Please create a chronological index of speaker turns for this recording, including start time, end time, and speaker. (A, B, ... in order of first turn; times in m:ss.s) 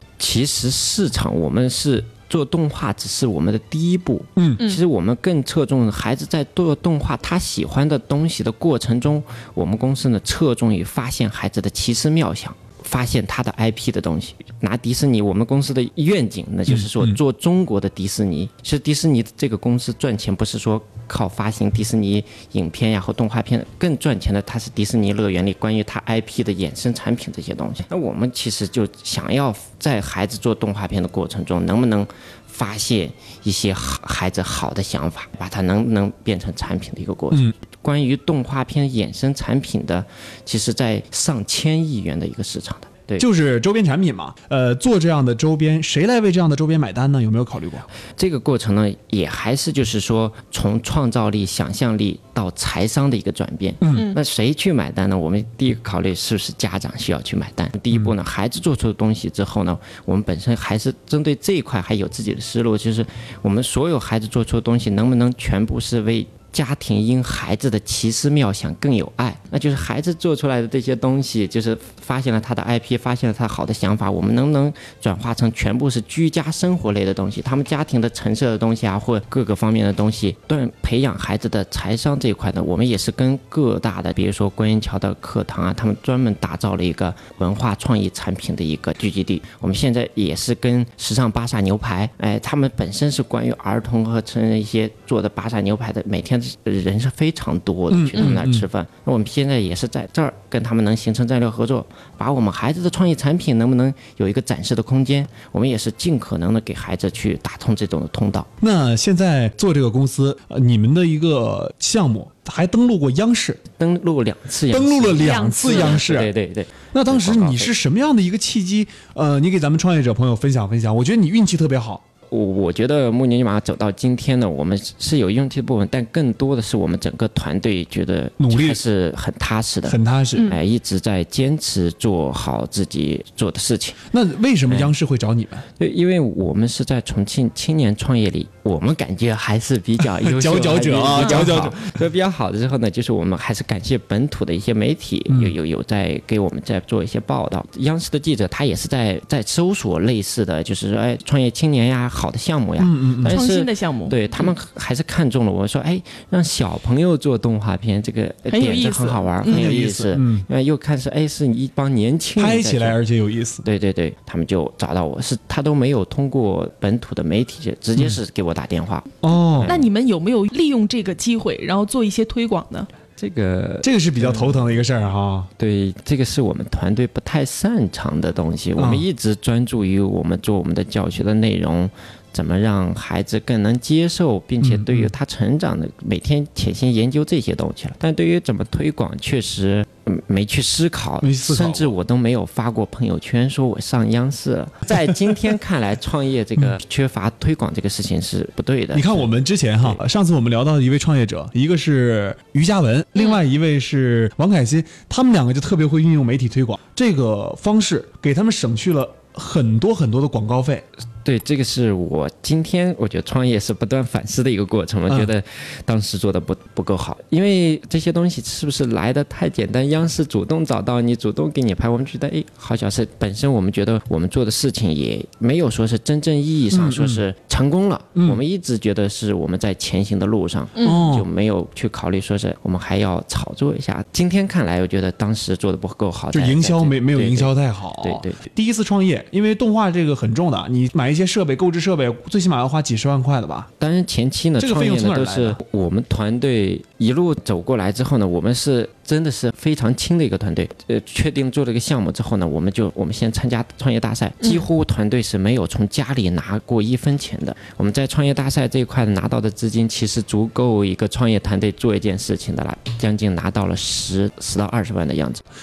0:00.2-0:43.2 A
0:04.4-0:04.6 B
0:16.7-0:17.2 B
0:43.2-0:47.8 B
0:48.2-1:48.5 A
0:53.8-0:54.1 B
1:37.9-1:38.6 B
1:48.6-1:53.6 B
1:53.7-1:57.7 A
1:54.7-1:56.3 B
1:55.2-1:56.0 C
1:56.9-2:02.0 B
2:02.3-2:14.0 A
2:08.4-2:08.8 B
2:09.9-2:10.5 B
2:14.1-2:15.6 B
2:15.8-2:43.0 A
2:20.0-2:21.9 B
2:21.2-2:21.5 C
2:25.3-2:25.5 B
2:32.8-2:33.4 B
2:33.2-2:34.5 C
2:38.5-2:39.7 C
2:39.4-2:40.4 B
2:42.4-2:43.6 B
2:43.6-2:49.9 A
2:49.2-2:49.8 B
2:49.6-2:52.9 C
2:53.2-2:54.8 A
2:53.8-2:55.5 B
2:55.6-3:20.0 A
2:58.8-2:59.0 B
3:04.6-3:05.1 B
3:11.2-3:11.9 B
3:18.9-3:30.8 B
3:31.2-3:58.4 A
3:46.7-3:47.2 B
3:50.8-3:51.0 C
3:50.8-3:51.3 B
3:56.3-4:03.7 B
4:03.8-4:25.4 A
4:04.6-4:05.6 B